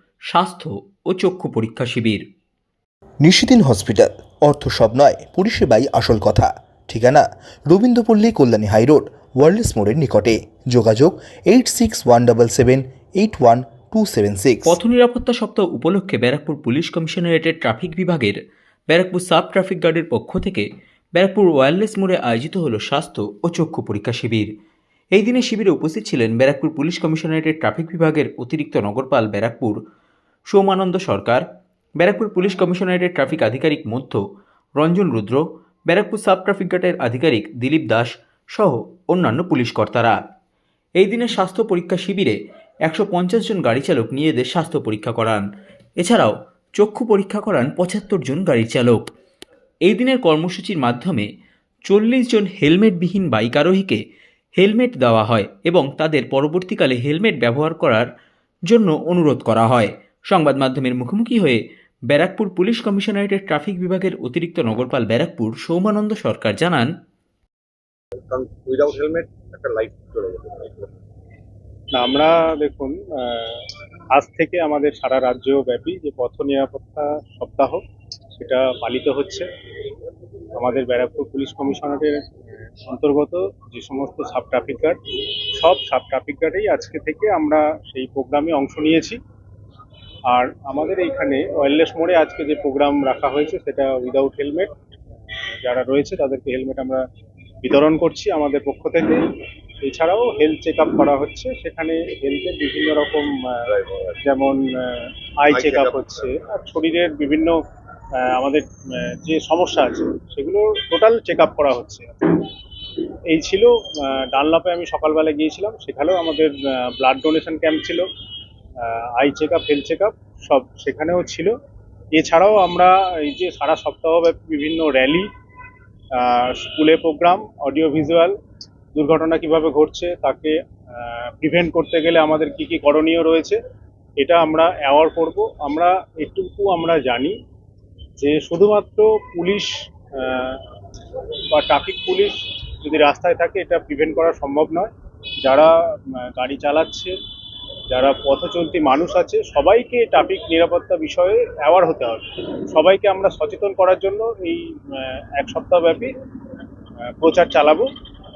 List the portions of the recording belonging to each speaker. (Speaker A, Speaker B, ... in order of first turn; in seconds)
Speaker A: 0.3-2.2, 14.7-18.4, 18.9-24.5, 25.1-29.8, 30.5-31.4, 32.0-34.2, 34.8-40.1, 41.0-42.3, 42.9-45.4, 46.0-49.0, 49.8-51.3, 51.9-54.0, 54.6-58.1, 58.7-66.9
Speaker B: 3.2-14.8
Speaker C: 68.2-70.9, 105.5-106.1
Speaker D: 71.9-73.6, 74.1-77.8, 78.4-79.5, 80.5-82.2, 82.9-85.0, 85.6-89.2, 90.3-94.7, 95.6-97.0, 97.6-99.2, 99.8-103.6, 104.2-107.5, 108.2-112.5, 113.3-118.0, 118.8-121.5, 122.2-125.3, 126.2-128.3, 128.9-133.6, 134.2-137.3, 138.2-140.6, 141.5-144.9, 145.4-147.1, 147.9-156.1, 157.2-157.9